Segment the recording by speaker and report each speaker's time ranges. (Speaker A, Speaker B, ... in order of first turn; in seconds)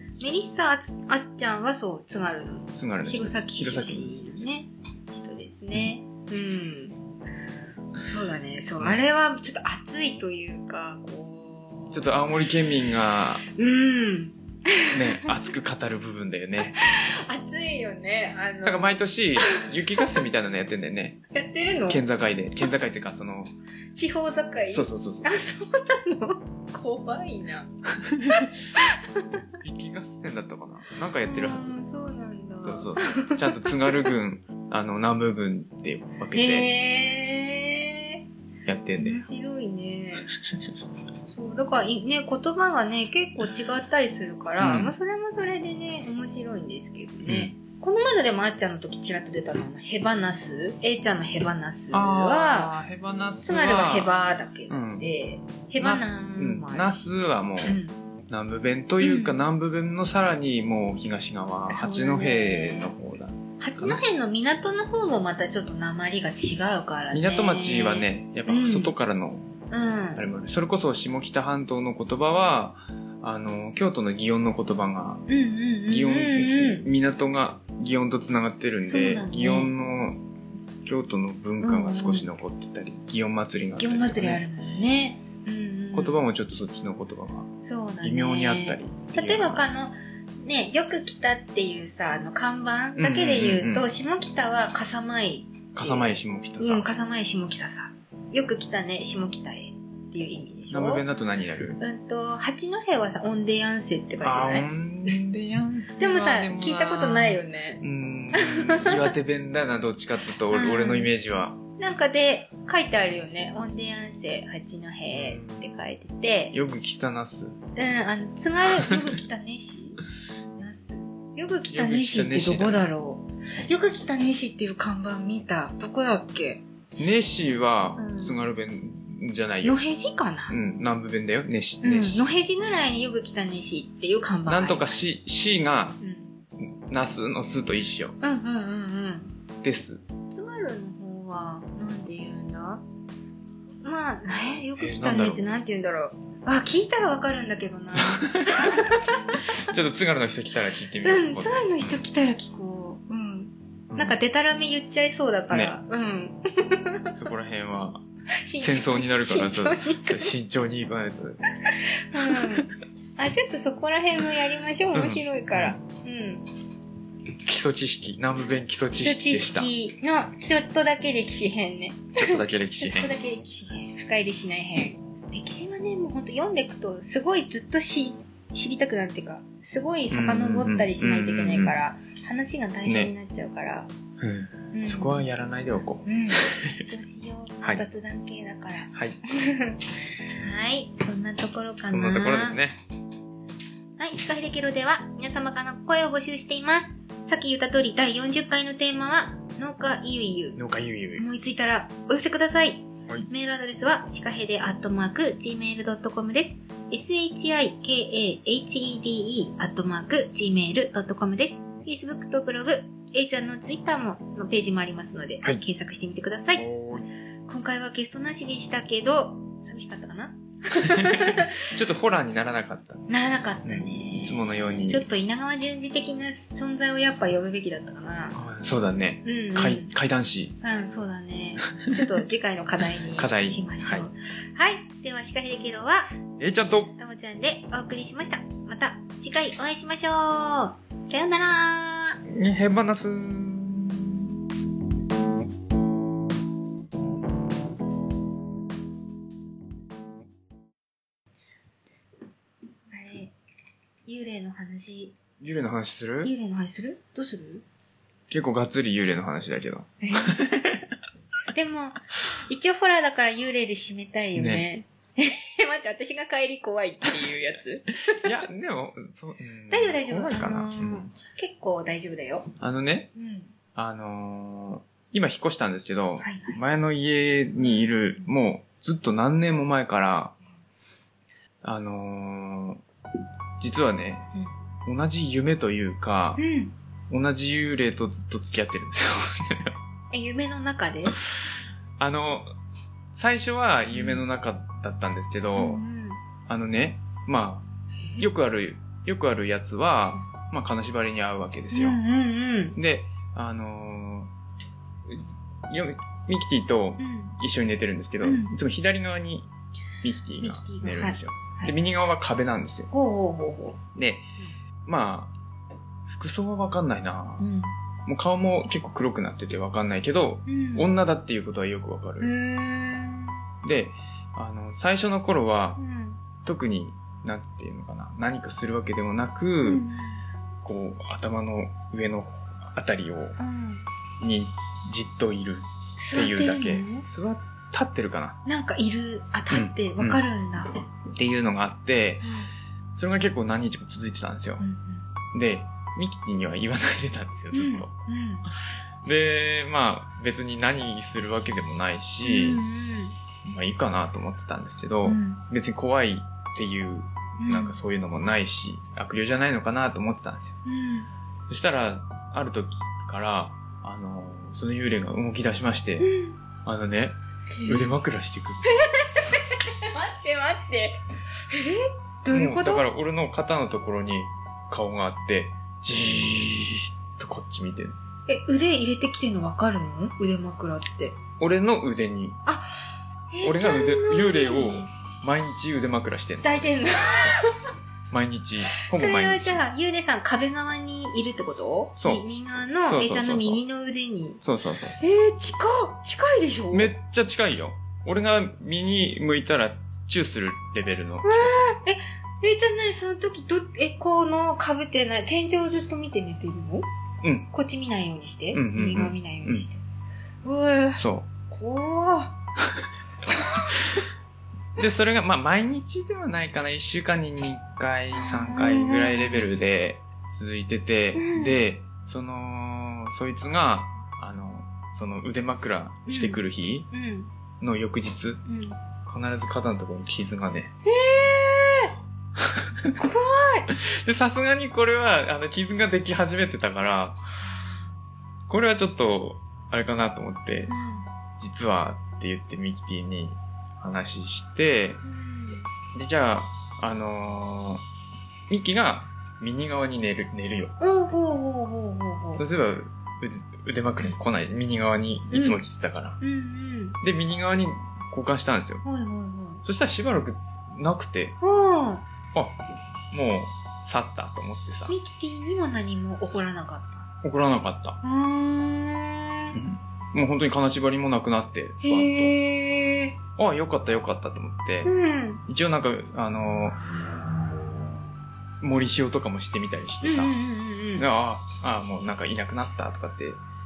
Speaker A: 0.2-7.0, 8.0-12.2, 13.5-15.3, 16.8-19.7, 21.3-22.0, 23.9-27.7, 28.3-29.4, 31.2-34.1, 36.3-38.2, 39.0-40.3, 41.3-52.8, 53.4-57.1, 57.6-58.0, 59.0-59.4, 61.7-62.9, 63.6-68.9, 69.7-70.2, 75.3-76.9, 78.8-79.7, 81.6-82.3, 83.8-86.2, 87.6-101.0, 101.8-104.7, 106.0-109.1, 110.5-111.1, 111.8-116.5, 117.8-120.0, 120.6-126.6, 128.0-128.4, 129.6-130.6, 131.8-135.1, 136.0-136.3, 138.2-139.3, 140.3-142.8, 143.8-149.7, 151.0-157.2, 158.5-160.3, 161.7-166.4, 169.0-183.9, 184.7-185.2, 186.1-189.8, 190.4-192.6, 194.0-200.6, 201.2-216.7, 217.5-221.7, 223.1-228.4, 229.2-229.9, 230.6-236.1, 237.0-242.2, 252.9-253.3, 254.1-255.2, 256.2-257.6, 260.0-260.8, 261.5-268.3, 269.7-272.5, 273.2-273.5, 276.2-276.6, 286.4-286.7, 290.1-291.2, 293.9-294.2, 295.6-296.2, 301.7-302.8, 307.0-307.4, 308.2-308.5, 310.4-311.7, 312.9-313.8, 317.4-317.7, 320.5-320.9, 322.2-323.4, 325.8-326.2, 329.6-330.2, 333.4-333.9, 336.0-337.1, 338.4-340.8, 342.2-342.5, 344.6-345.1, 347.5-348.5, 352.2-353.2, 355.0-355.4, 357.4-357.8, 360.6-361.1, 366.0-366.4, 367.6-367.9, 368.6-372.9, 378.3-381.2, 382.5-384.9, 386.4-387.6, 388.8-394.4, 395.0-396.9, 401.2-406.9, 407.5-409.8, 410.4-412.4, 413.3-414.0, 418.1-419.5, 421.1-421.6, 426.1-427.3, 428.5-428.8, 430.9-431.9, 432.9-433.7, 440.7-441.1, 445.1-445.7, 450.8-452.4, 455.3-455.6, 456.2-457.0, 458.8-459.6, 461.4-462.1, 464.9-467.1, 468.0-469.6, 471.8-473.2, 474.8-475.4, 480.0-481.1
Speaker B: 2.7-4.5, 11.9-13.4, 14.9-16.8, 18.6-21.2, 21.9-23.5, 24.7-25.4, 28.0-28.4, 29.6-31.8, 32.6-36.7, 38.7-39.2, 44.6-44.9, 47.2-47.5, 51.9-54.1, 54.7-55.1, 55.8-64.0, 67.1-69.5, 70.2-75.2, 75.9-80.2, 80.9-84.4, 85.9-87.5, 88.0-89.7, 93.0-93.9, 95.7-96.9, 100.7-101.8, 104.2-111.6, 115.1-115.6, 116.5-117.6, 121.7-122.9, 127.0-129.8, 130.5-132.2, 134.5-136.0, 136.9-138.2, 139.6-140.0, 144.8-145.5, 148.0-148.9, 149.6-152.0, 153.9-154.2, 155.5-155.8, 157.1-158.0, 158.6-161.4, 162.2-162.6, 164.9-165.8, 167.4-169.7, 172.2-173.1, 180.1-181.8, 182.9-183.1, 184.2-186.8, 188.9-189.2, 191.9-192.8, 200.6-201.3, 216.6-217.1, 220.8-223.1, 223.7-225.0, 228.3-230.6, 231.8-232.1, 233.2-234.1, 236.4-237.0, 242.3-244.4, 255.4-256.3, 258.3-260.8, 264.4-264.6, 268.1-271.1, 272.6-273.1, 273.8-280.4, 281.6-282.8, 283.6-284.3, 284.9-286.4, 287.1-289.8, 292.0-292.5, 293.1-295.8, 296.5-297.7, 298.2-302.0, 302.8-304.3, 305.1-309.5, 310.0-312.9, 313.9-314.3, 314.9-315.3, 316.1-317.4, 318.1-322.3, 323.6-325.8, 326.4-329.9, 330.6-333.4, 334.2-338.4, 339.5-340.2, 341.1-342.2, 342.9-344.6, 345.3-347.9, 349.0-352.6, 353.4-360.6, 361.5-366.1, 366.6-368.8, 372.3-377.9, 381.4-382.4, 383.4-387.4, 388.1-389.6, 392.0-392.3, 392.9-393.6, 394.4-395.0, 396.7-401.7, 407.2-407.5, 408.5-409.7, 411.0-411.3, 414.8-426.9, 427.6-428.4, 429.1-430.7, 432.4-432.9, 433.7-437.2, 438.5-440.7, 441.4-445.0, 445.9-447.8, 448.5-450.8, 452.3-456.2, 457.0-458.8, 459.6-461.4, 463.1-464.9, 467.2-468.0, 469.5-472.4, 473.4-474.9, 475.5-476.8, 478.6-480.4, 481.0-483.4